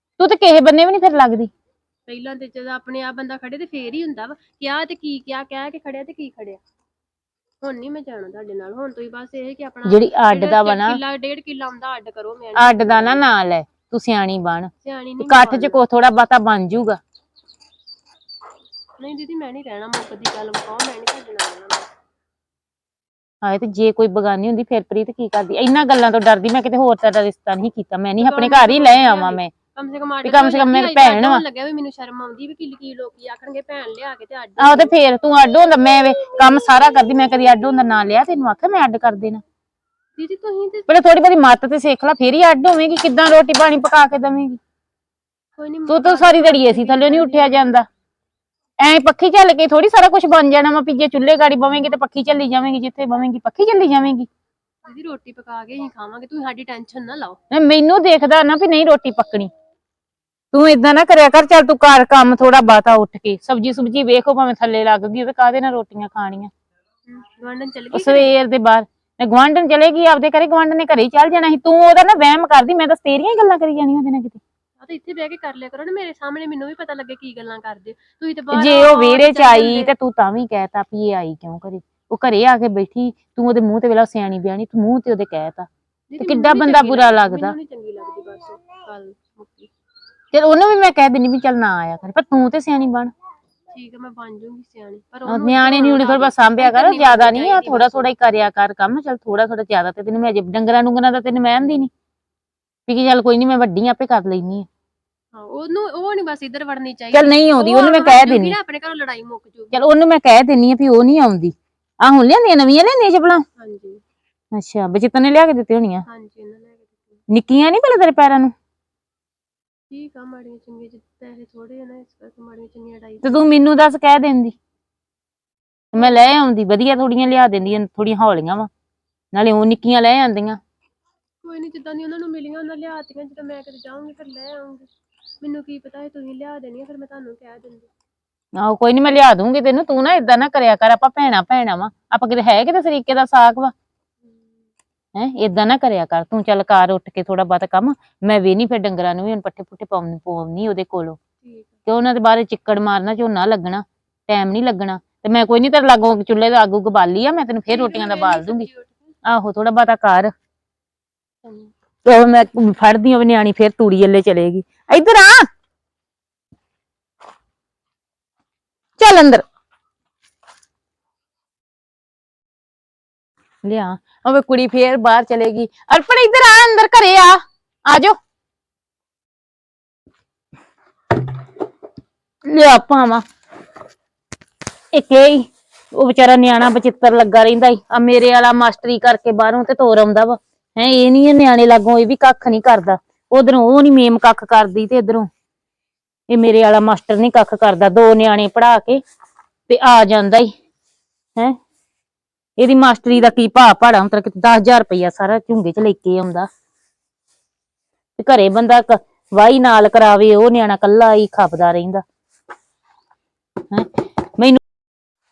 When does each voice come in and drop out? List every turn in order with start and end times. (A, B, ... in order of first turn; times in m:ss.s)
0:00.2-0:01.5 A
0:02.1-0:06.6 B
0:07.6-0:13.2 B
0:09.8-0:11.0 A
0:12.6-0:17.0 A
0:14.8-0:15.8 B
0:19.0-0:21.9 B
0:23.4-0:29.5 A
0:28.2-0:34.9 B
0:30.2-0:31.4 A
0:34.6-0:39.4 A
0:40.2-0:40.9 B
0:40.9-0:44.6 A
0:45.6-0:47.7 B
0:45.9-0:47.8 A
0:48.8-0:54.3 A
0:54.8-0:57.4 B
0:57.5-0:59.5 A
1:00.5-1:06.5 A
1:07.1-1:08.3 B
1:07.9-1:14.4 A
1:14.8-1:19.9 B
1:18.5-1:25.7 A
1:26.1-1:29.7 B
1:26.2-1:27.5 A
1:30.3-1:33.1 A
1:33.7-1:38.1 B
1:35.3-1:41.9 A
1:42.9-1:44.7 A
1:45.3-1:49.8 B
1:47.1-1:48.6 A
1:49.7-1:53.4 A
1:53.6-1:54.0 B
1:54.5-1:56.0 A
1:56.1-1:57.2 B
1:57.3-1:58.5 A
1:59.9-2:03.4 B
2:03.2-2:04.6 A
2:05.9-2:08.7 A
2:06.0-2:06.2 B
2:09.3-2:10.6 A
2:11.4-2:14.9 B
2:15.4-2:17.9 B
2:18.6-2:23.7 A
2:25.1-2:31.2 A
2:31.4-2:31.7 B
2:31.8-2:38.7 A
2:37.7-2:39.1 B
2:39.2-2:40.3 A
2:41.4-2:41.7 B
2:42.0-2:45.4 A
2:49.0-2:49.4 A
2:53.6-2:58.2 A
3:02.4-3:03.2 A
3:04.9-3:15.3 A
3:16.3-3:19.0 A
3:19.7-3:20.5 A
3:22.6-3:26.5 A
3:28.2-3:32.0 A
3:33.7-3:34.6 A